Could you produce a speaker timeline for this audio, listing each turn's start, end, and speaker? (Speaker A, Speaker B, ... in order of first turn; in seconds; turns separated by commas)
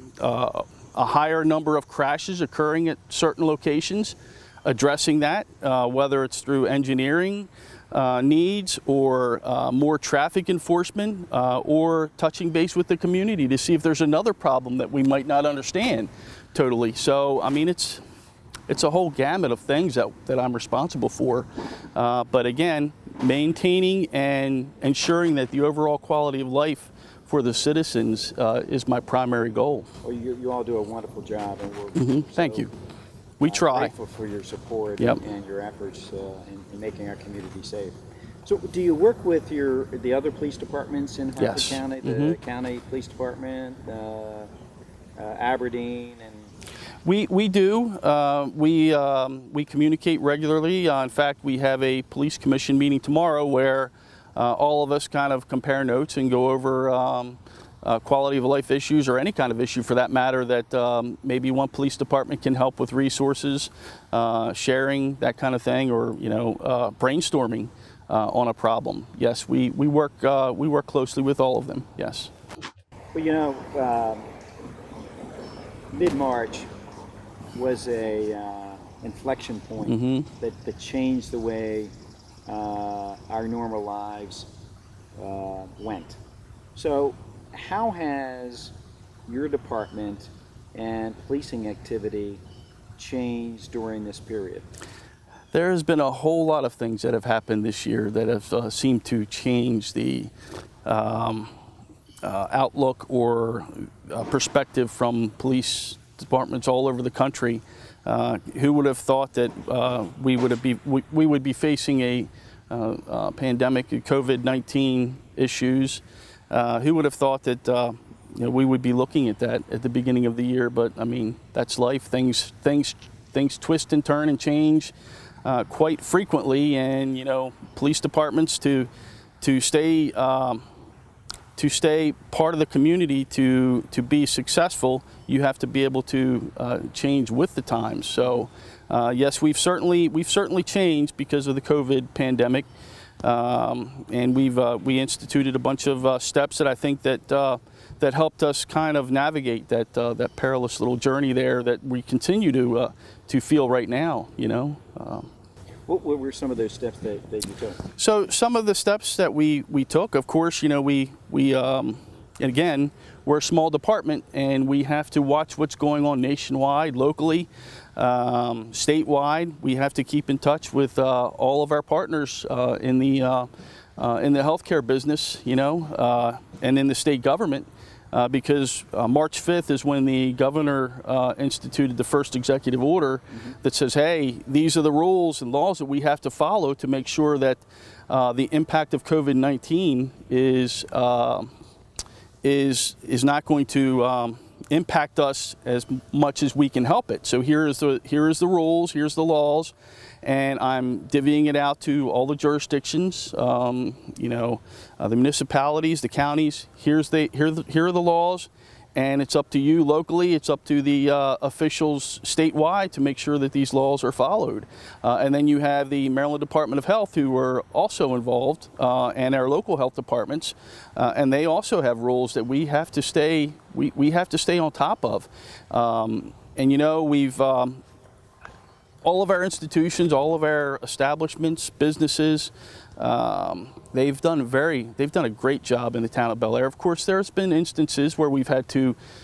Speaker A: 0.2-18.0, Speaker A: 18.7-29.9, Speaker B: 30.0-32.7, Speaker A: 32.0-32.7, Speaker A: 33.4-33.9, Speaker B: 33.5-44.5, Speaker A: 41.4-42.4, Speaker B: 45.2-46.5, Speaker A: 47.0-72.3, Speaker B: 73.1-74.3, Speaker B: 75.9-76.7, Speaker B: 77.5-81.9, Speaker A: 79.8-80.3, Speaker B: 82.5-84.5, Speaker B: 85.2-86.2, Speaker B: 86.8-88.7, Speaker B: 89.3-92.4, Speaker B: 93.0-94.7, Speaker A: 95.5-100.3, Speaker A: 100.8-101.5, Speaker A: 102.2-124.9, Speaker A: 125.4-128.9, Speaker A: 129.4-130.7, Speaker A: 131.6-142.7, Speaker A: 143.2-155.3, Speaker B: 155.9-157.8, Speaker A: 158.0-191.5, Speaker A: 192.4-227.8, Speaker A: 229.0-239.0